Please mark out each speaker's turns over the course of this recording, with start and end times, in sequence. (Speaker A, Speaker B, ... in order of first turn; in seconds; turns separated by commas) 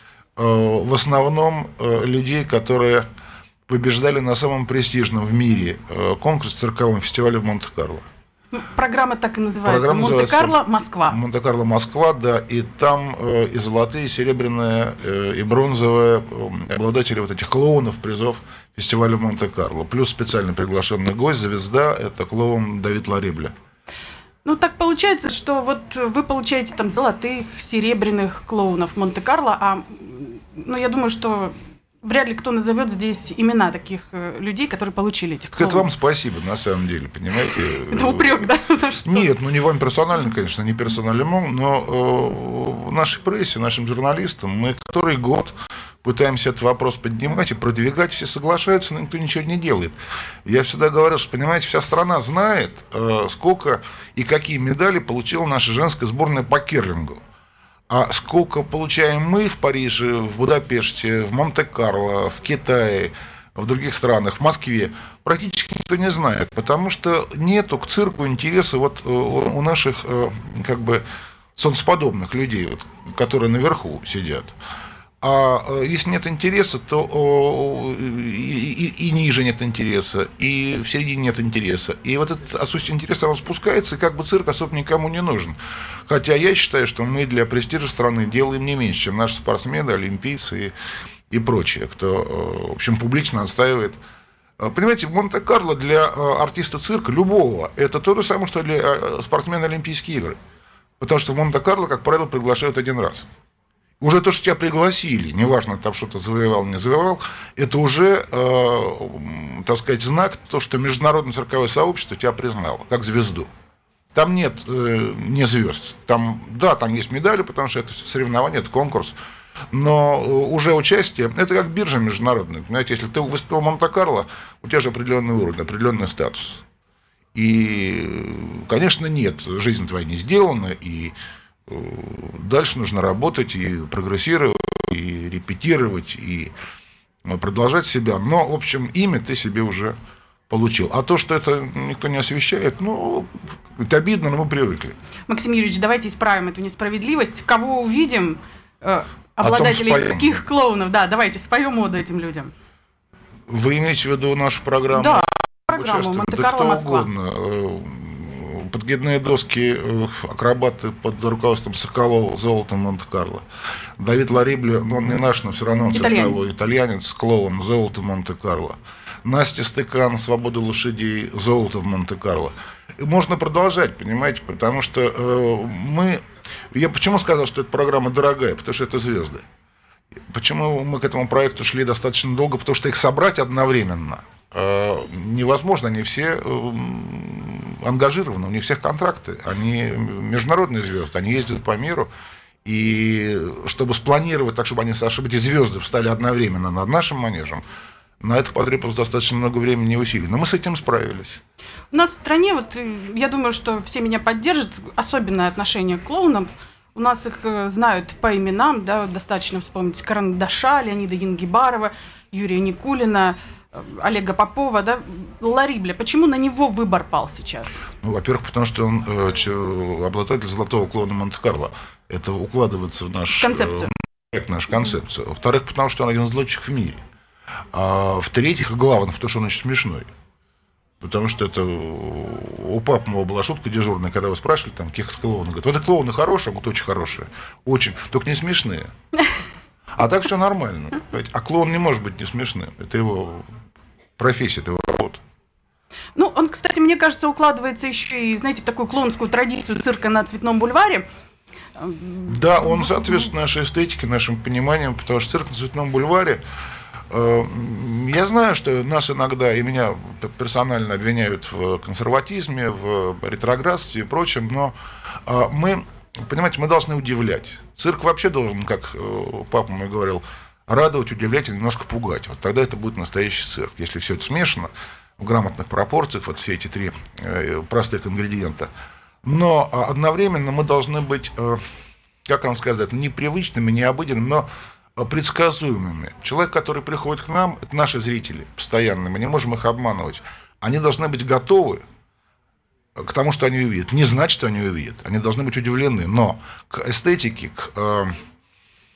Speaker A: 0.4-3.0, Speaker A: 3.7-8.0, Speaker B: 8.5-11.2, Speaker A: 9.6-23.5, Speaker B: 24.4-35.9, Speaker A: 35.5-38.4, Speaker B: 37.9-39.3, Speaker A: 39.0-45.5, Speaker A: 46.0-57.2, Speaker A: 57.9-71.0, Speaker A: 71.6-74.5, Speaker A: 75.2-85.6, Speaker A: 86.1-90.7, Speaker A: 91.3-94.0, Speaker A: 94.6-100.4, Speaker A: 101.0-103.3, Speaker A: 104.0-113.5, Speaker A: 114.1-119.2, Speaker A: 119.7-126.6, Speaker A: 127.3-131.1, Speaker A: 131.7-136.5, Speaker A: 137.2-139.9, Speaker A: 140.5-144.9, Speaker B: 145.3-152.5, Speaker A: 149.4-150.4, Speaker A: 153.5-163.4, Speaker B: 154.9-157.1, Speaker A: 164.0-179.4, Speaker B: 165.9-166.4, Speaker A: 180.3-192.1, Speaker A: 192.6-197.6, Speaker A: 198.2-201.4, Speaker B: 201.9-217.8, Speaker A: 218.0-227.0, Speaker B: 223.3-223.9, Speaker A: 227.7-230.1, Speaker A: 231.0-238.9, Speaker A: 239.9-243.4, Speaker A: 244.2-245.2, Speaker B: 246.1-251.0, Speaker B: 251.8-253.2, Speaker A: 252.3-256.4, Speaker A: 257.1-264.7, Speaker A: 265.2-278.7, Speaker A: 279.2-281.6, Speaker A: 282.3-284.4, Speaker A: 285.0-291.8, Speaker A: 292.9-298.1